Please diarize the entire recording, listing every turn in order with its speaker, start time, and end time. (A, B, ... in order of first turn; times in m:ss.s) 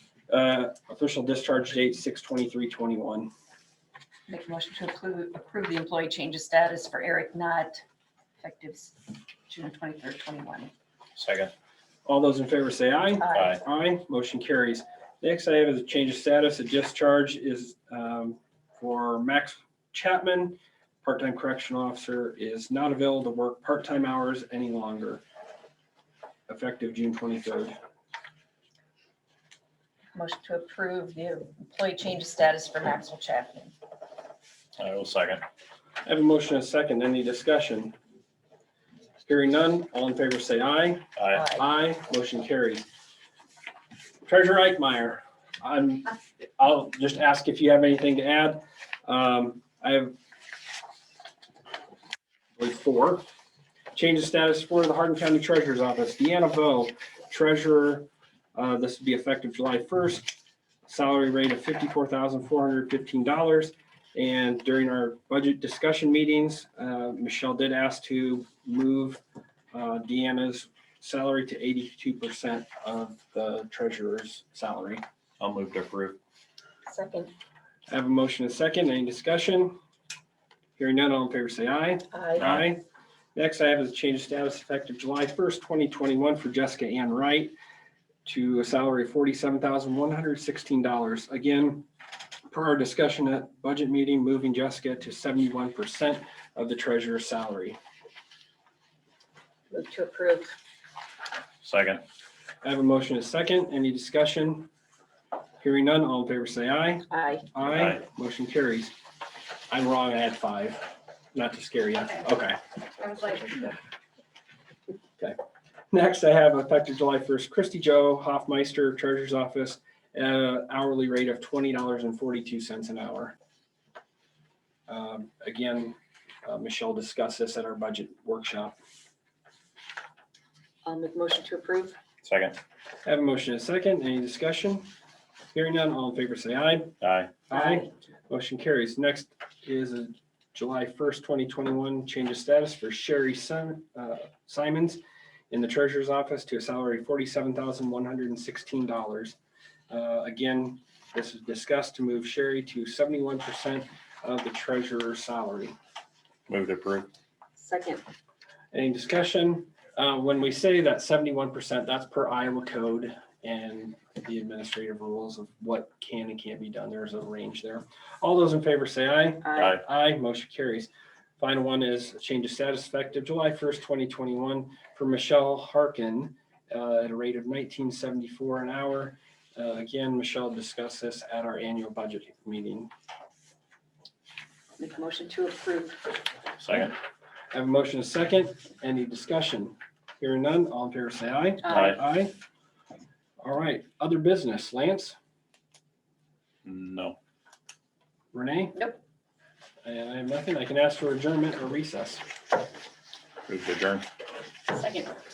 0:00.3-0:03.3 A
0:04.3-0:07.8 B
0:08.4-0:10.7 B
0:11.2-0:11.5 C
0:12.0-0:25.2 A
0:13.2-0:13.6 B
0:13.3-0:13.6 C
0:26.5-0:27.8 A
0:30.1-0:33.7 B
0:34.8-0:35.4 C
0:36.0-0:37.9 A
0:39.2-0:42.8 A
0:41.2-0:41.4 C
0:41.3-0:41.6 B
0:44.2-0:50.2 A
0:52.6-0:53.2 A
0:53.9-1:09.2 A
1:09.7-1:15.0 A
1:15.4-1:16.2 C
1:16.9-1:17.3 B
1:17.9-1:19.8 A
1:20.8-1:22.8 A
1:22.1-1:22.5 B
1:22.4-1:22.7 C
1:23.3-1:27.5 A
1:28.2-1:31.8 A
1:32.5-1:37.8 A
1:39.7-1:40.6 B
1:41.6-1:42.0 C
1:42.6-1:44.7 A
1:45.6-1:48.9 A
1:47.1-1:47.4 B
1:47.6-1:48.0 C
1:49.7-1:52.6 A
1:53.0-1:53.8 B
1:55.9-2:03.4 A
2:04.9-2:08.8 A
2:10.8-2:12.0 B
2:12.2-2:12.6 C
2:13.0-2:14.9 A
2:15.5-2:17.0 A
2:17.0-2:17.3 C
2:17.5-2:29.4 A
2:17.5-2:17.9 B
2:29.9-2:35.7 A
2:36.5-2:37.1 C
2:37.6-2:38.0 B
2:38.7-3:02.9 A
2:49.4-2:49.8 B
2:49.6-2:49.8 C
3:04.8-3:06.1 B
3:06.6-3:07.0 C
3:07.5-3:12.3 A
3:11.6-3:12.0 B
3:11.7-3:12.0 C
3:13.4-3:15.2 A
3:16.6-3:17.2 C
3:18.3-3:18.8 A
3:19.8-3:22.2 A
3:23.5-3:24.1 C
3:24.7-3:25.1 B